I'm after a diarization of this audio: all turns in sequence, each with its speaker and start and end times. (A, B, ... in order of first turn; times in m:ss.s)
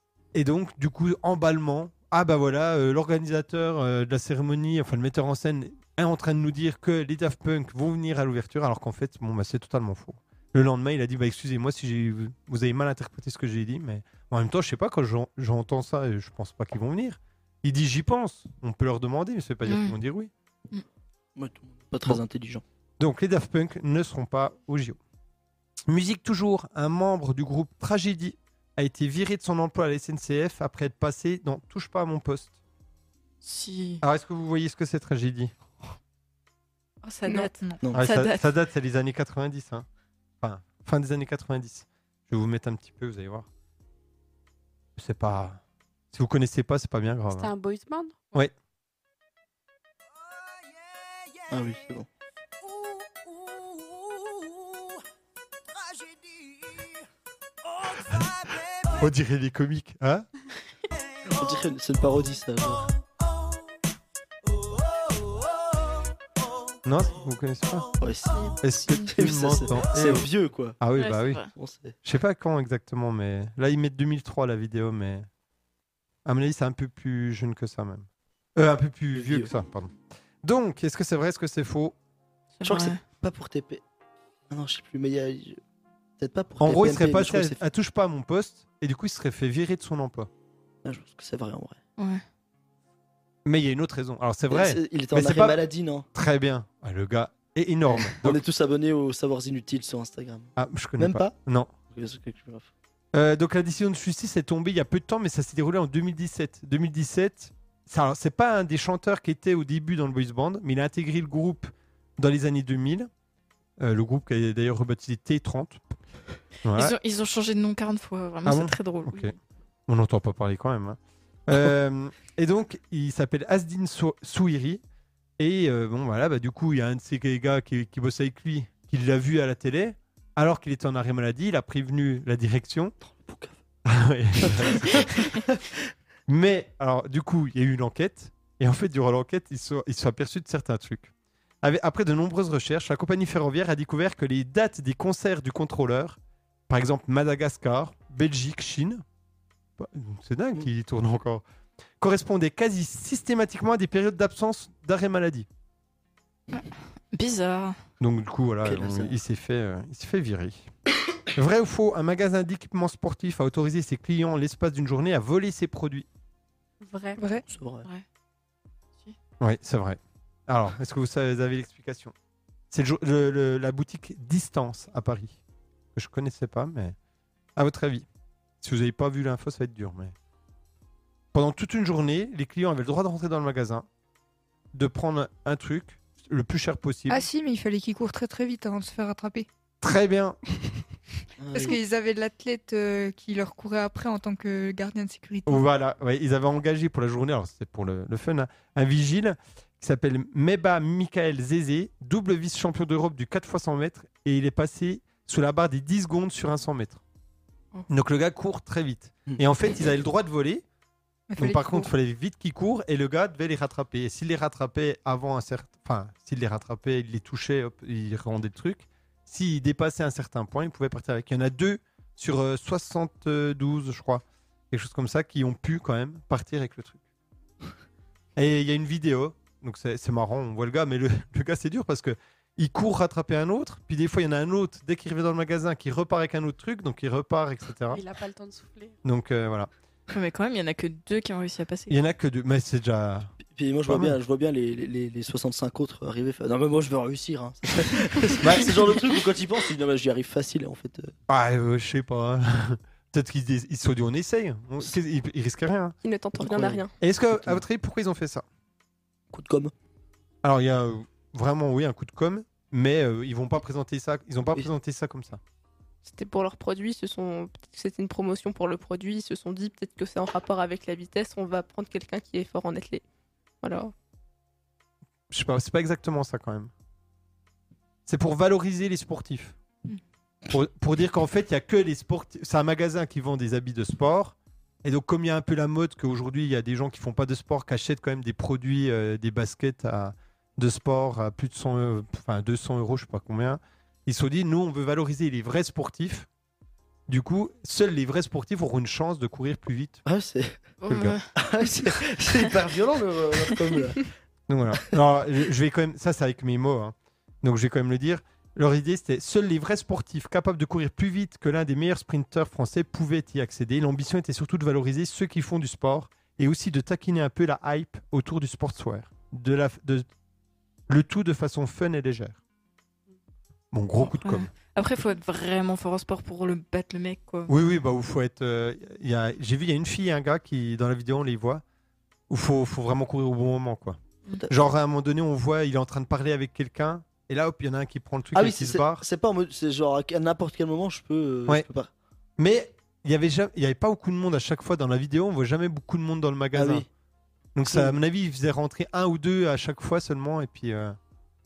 0:00.3-0:20.3 A
0:19.6-0:20.0 B
0:21.4-0:22.6 C
0:23.0-0:25.0 A
0:25.9-0:32.6 A
0:33.4-0:34.0 B
0:34.0-0:35.5 A
0:37.0-0:38.5 B
0:37.6-0:37.9 D
0:37.9-0:39.8 A
0:40.4-0:43.5 A
0:45.0-0:45.6 A
0:46.1-0:47.5 A
0:47.3-0:48.2 E
0:51.5-0:52.1 C
0:59.0-1:00.3 A
1:01.2-1:03.0 C
1:06.8-1:07.9 A
1:08.0-1:10.8 C
1:08.6-1:10.3 A
1:10.8-1:11.4 A
1:11.0-1:11.5 B
1:11.5-1:12.0 C
1:12.0-1:15.3 A
1:16.2-1:21.9 A
1:19.1-1:19.5 C
1:22.6-1:23.0 B
1:22.6-1:23.8 C
1:24.5-1:25.6 C
1:26.2-1:27.6 C
1:26.6-1:30.3 A
1:30.8-1:31.8 C
1:32.0-1:32.2 B
1:33.4-1:35.6 A
1:34.5-1:36.1 C
1:36.1-1:38.4 A
1:38.0-1:42.7 C
1:40.6-1:41.7 A
1:43.1-1:53.1 A
1:53.8-1:55.8 A
1:56.6-1:56.9 A
1:56.7-1:59.3 B
1:58.4-1:59.3 A
1:59.9-2:04.8 A
2:05.4-2:12.9 A
2:13.0-2:13.6 C
2:13.8-2:15.1 A
2:14.4-2:15.8 C
2:16.3-2:21.1 A
2:21.6-2:26.2 A
2:26.7-2:29.0 A
2:29.8-2:31.4 A
2:32.0-2:35.5 A
2:36.5-2:37.8 B
2:38.0-2:40.7 A
2:38.6-2:39.2 C
2:41.3-2:46.0 A
2:46.8-2:47.2 E
2:47.2-2:47.4 D
2:47.4-2:47.9 C
2:49.4-2:52.1 A
2:52.7-2:55.4 A
2:55.9-2:56.9 A
2:57.6-2:58.0 A
2:58.6-3:00.1 A
3:01.3-3:03.8 A
3:04.7-3:07.3 A
3:07.1-3:09.5 D
3:09.8-3:10.4 A
3:11.4-3:11.8 C
3:11.5-3:15.6 D
3:15.4-3:27.0 A
3:27.9-3:30.6 A
3:31.3-3:31.9 D
3:31.4-3:47.0 A
3:48.4-3:58.0 A
3:57.9-3:59.0 E
3:59.0-3:59.7 A
4:00.1-4:02.0 B
4:01.9-4:03.3 A
4:03.4-4:11.1 C
4:03.9-4:04.1 A
4:08.4-4:08.8 A
4:11.3-4:15.9 A
4:16.0-4:16.9 F
4:16.4-4:17.6 C
4:17.0-4:18.4 A
4:19.3-4:19.7 C
4:20.4-4:25.4 A
4:26.0-4:33.0 F
4:33.6-4:33.9 F
4:35.3-4:36.7 A
4:38.1-4:39.5 A
4:40.5-4:56.3 A
4:57.1-5:00.0 A
5:00.0-5:00.6 C
5:00.8-5:01.3 B
5:00.9-5:01.2 A
5:01.3-5:04.1 C
5:04.5-5:20.0 A
5:20.9-5:22.4 A
5:23.7-5:24.5 A
5:24.0-5:27.5 B
5:27.5-5:31.6 A
5:32.3-5:39.0 A
5:38.3-5:41.9 C
5:42.4-5:46.8 A
5:46.5-5:46.9 C
5:47.5-5:51.0 A
5:47.7-5:48.0 C